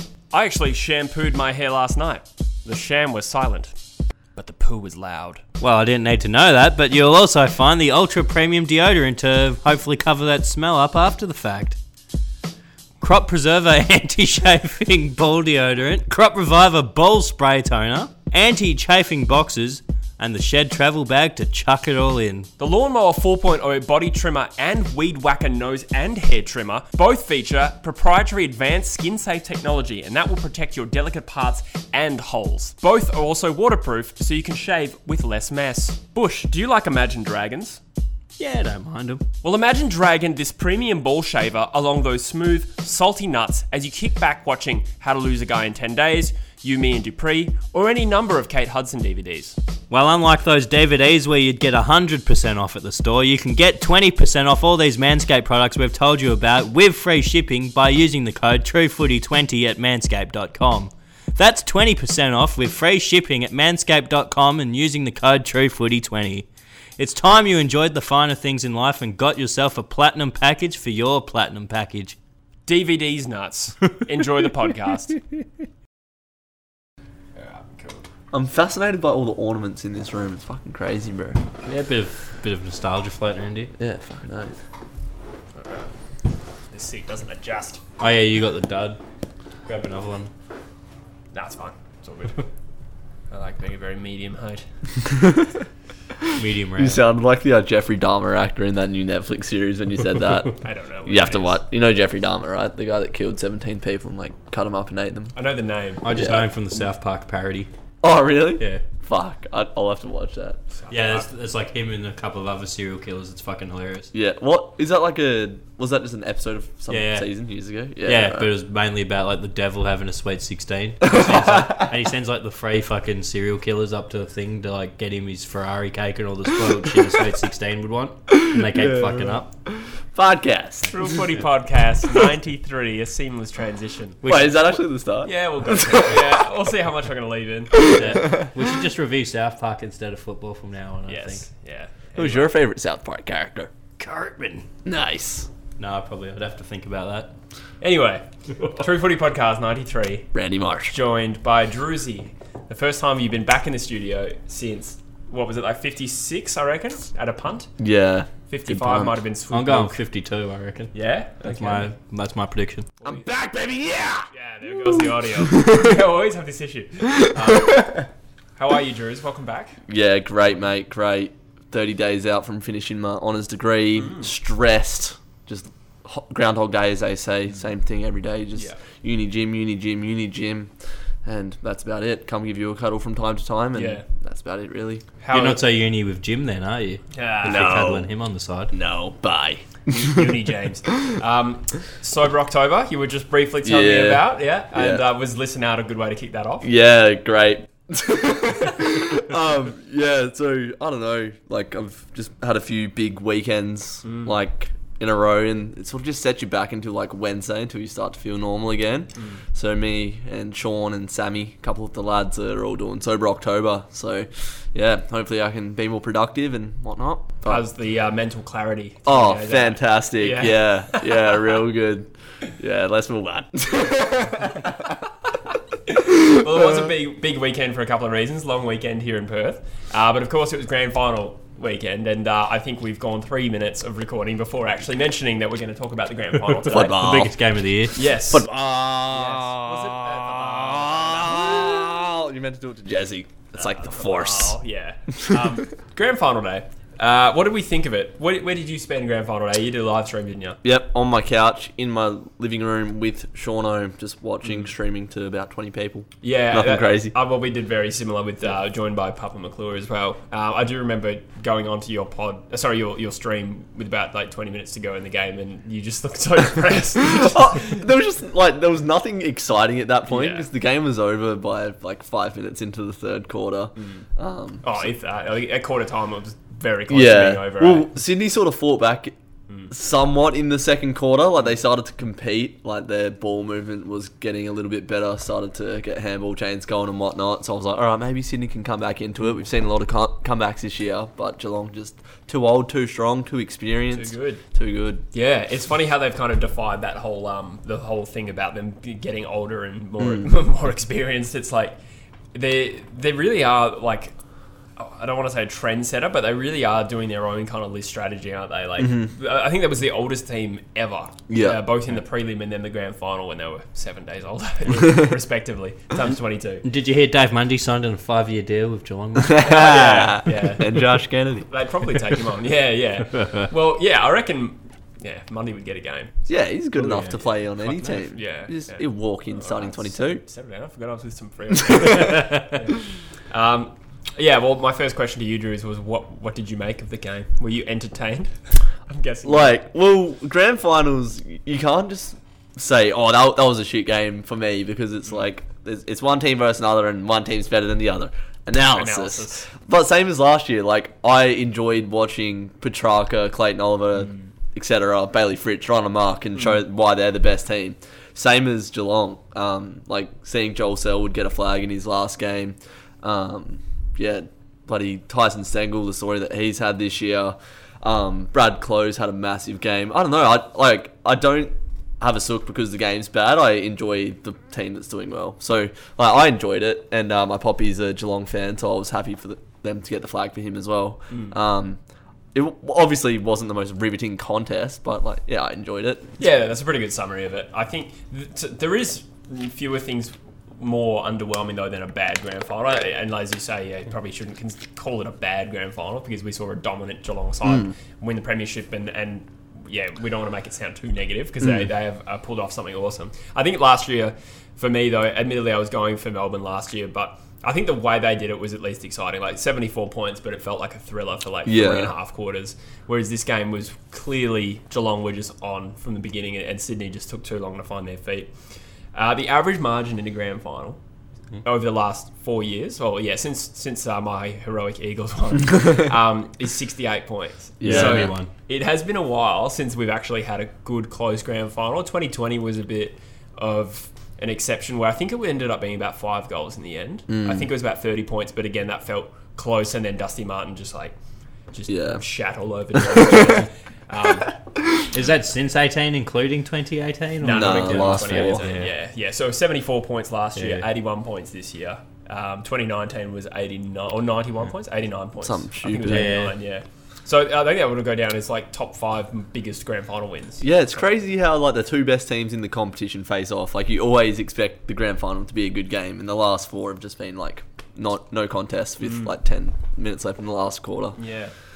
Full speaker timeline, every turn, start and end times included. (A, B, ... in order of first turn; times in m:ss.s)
0:00.3-0:03.7 A
0:04.4-0:05.4 A
0:05.6-0:11.8 B
0:13.0-0:22.5 B
0:22.6-0:37.8 A
0:38.4-0:39.2 B
0:39.4-0:49.6 A
0:49.9-1:12.2 B
1:12.7-1:15.2 A
1:17.4-1:18.0 A
1:18.3-1:21.4 C
1:21.6-1:23.7 B
1:23.8-1:24.6 C
1:26.7-1:27.8 A
1:28.0-1:29.0 B
1:29.6-1:30.3 B
1:31.3-1:32.5 A
1:33.3-1:34.6 A
1:35.0-1:35.5 C
1:36.2-1:45.3 C
1:36.4-1:37.0 B
1:40.6-1:41.6 A
1:45.3-1:46.0 A
1:46.0-1:47.7 B
1:46.1-1:46.5 C
1:48.0-1:50.6 C
1:50.7-1:51.3 A
1:50.9-1:54.1 B
1:54.1-1:58.5 C
1:56.9-1:57.3 B
1:58.0-2:09.5 B
2:01.0-2:01.9 C
2:08.3-2:11.0 C
2:10.8-2:14.3 A
2:14.2-2:14.6 B
2:14.2-2:16.4 C
2:15.2-2:18.3 A
2:17.8-2:18.5 C
2:17.9-2:21.4 B
2:21.1-2:22.5 A
2:22.2-2:23.7 C
2:24.0-2:24.7 B
2:24.8-2:25.5 C
2:25.8-2:27.3 B
2:27.8-2:30.3 A
2:30.3-2:31.0 C
2:30.9-2:37.7 A
2:37.8-2:39.2 C
2:38.5-2:40.0 A
2:39.5-2:42.9 B
2:40.9-2:41.9 A
2:43.0-2:43.3 A
2:43.0-2:44.3 C
2:44.3-2:49.8 A
2:44.9-2:45.9 C
2:49.9-3:00.7 C
2:54.0-2:54.3 A
3:01.2-3:05.0 C
3:03.7-3:04.0 A
3:05.2-3:05.6 A
3:05.3-3:08.7 B
3:07.1-3:07.8 A
3:07.4-3:08.1 C
3:08.7-3:10.2 C
3:09.9-3:16.7 A
3:13.6-3:15.0 C
3:16.6-3:37.6 C
3:24.0-3:24.3 A
3:37.4-3:41.3 A
3:39.0-3:44.9 C
3:45.9-3:57.1 A
3:56.7-3:57.3 C
3:56.8-3:58.1 B
3:57.9-3:58.5 A
3:58.1-4:04.6 C
3:59.1-4:01.8 A
4:03.5-4:10.6 A
4:10.6-4:17.1 C
4:16.2-4:27.8 A
4:27.1-4:34.8 C
4:30.1-4:30.5 A
4:33.8-4:34.0 A
4:34.6-4:37.9 A
4:36.9-4:39.1 C
4:39.7-4:55.0 C
4:53.9-4:54.4 A
4:55.1-5:01.8 A
5:00.0-5:00.3 C
5:02.3-5:04.1 A
5:04.8-5:16.6 A
5:08.8-5:09.1 C
5:11.3-5:11.6 C
5:16.6-5:20.1 B
5:19.2-5:21.5 C
5:19.4-5:20.9 A
5:21.5-5:26.3 A
5:26.3-5:30.2 C
5:26.8-5:28.0 B
5:28.0-5:32.8 A
5:31.7-5:32.2 C
5:33.3-5:39.6 A
5:39.2-6:21.8 C
5:48.7-5:49.5 A
6:22.3-6:26.2 C
6:26.2-6:58.3 A
6:51.4-6:51.9 C
6:58.9-7:00.8 A
7:01.4-7:20.9 A
7:07.6-7:08.1 C
7:07.6-7:08.3 B
7:17.1-7:17.5 C
7:21.5-7:24.4 A
7:21.7-7:22.0 C
7:22.7-7:23.4 C
7:24.9-7:28.7 B
7:27.2-7:40.9 A
7:27.2-7:28.5 C
7:30.4-7:30.7 B
7:35.2-7:36.2 C
7:35.8-7:36.3 B
7:40.4-7:51.0 C
7:48.8-7:49.1 A
7:51.0-7:51.3 A